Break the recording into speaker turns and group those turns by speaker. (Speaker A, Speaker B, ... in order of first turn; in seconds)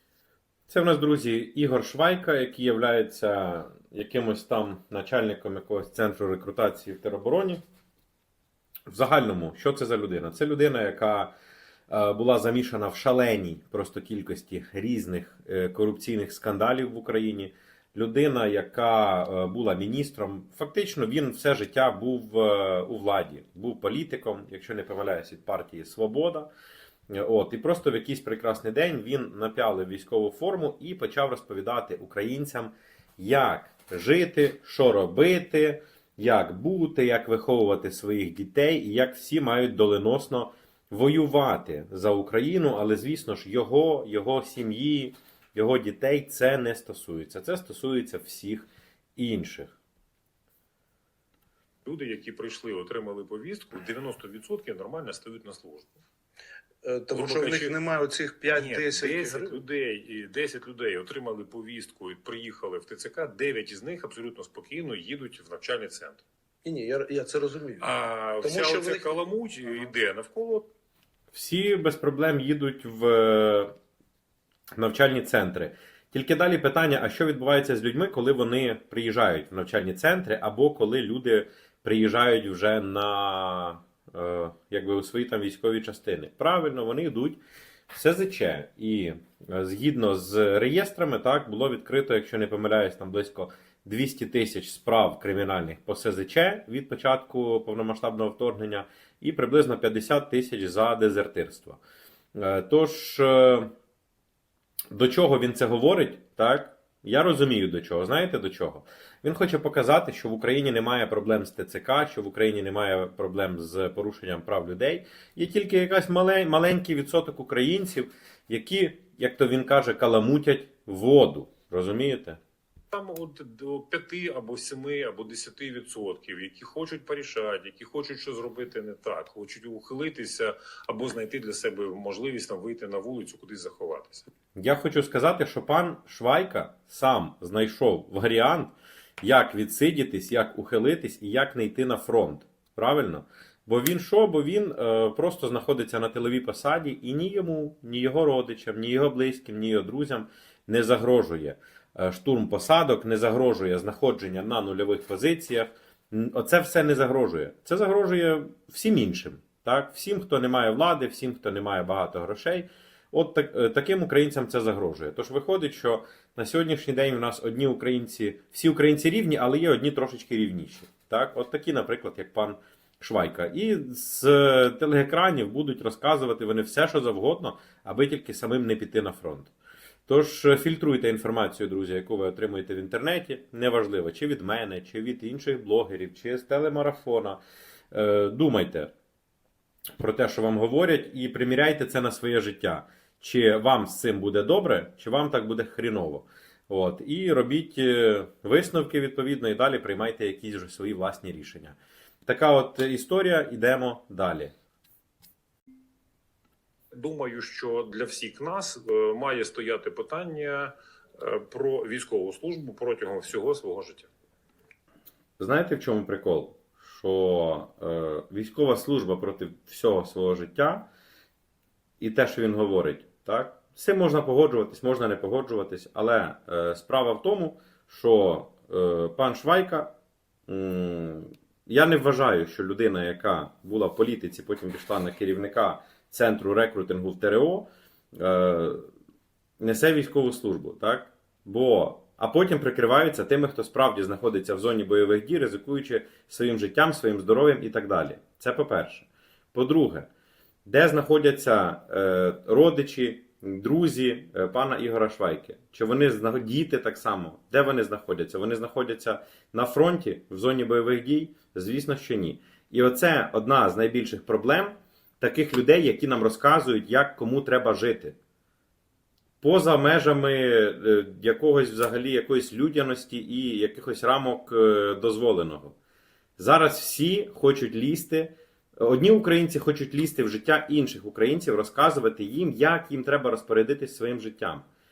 Speaker A: 0.7-7.6, 8.9-11.3, 11.9-26.5, 27.1-49.7, 71.3-73.7, 74.8-87.4, 87.9-101.8, 102.3-103.7, 104.9-122.4, 134.6-179.5, 180.1-187.4, 187.9-188.9, 190.0-204.5, 215.4-220.9, 222.0-229.9, 230.5-238.9, 239.6-250.1, 250.6-268.2, 269.4-275.8, 276.4-284.6
Speaker B: 51.8-56.0, 57.1-57.8, 58.5-66.2, 67.8-70.7, 122.9-134.2, 206.9-214.1
Speaker C: 56.8-59.6, 66.6-67.9, 68.4-69.2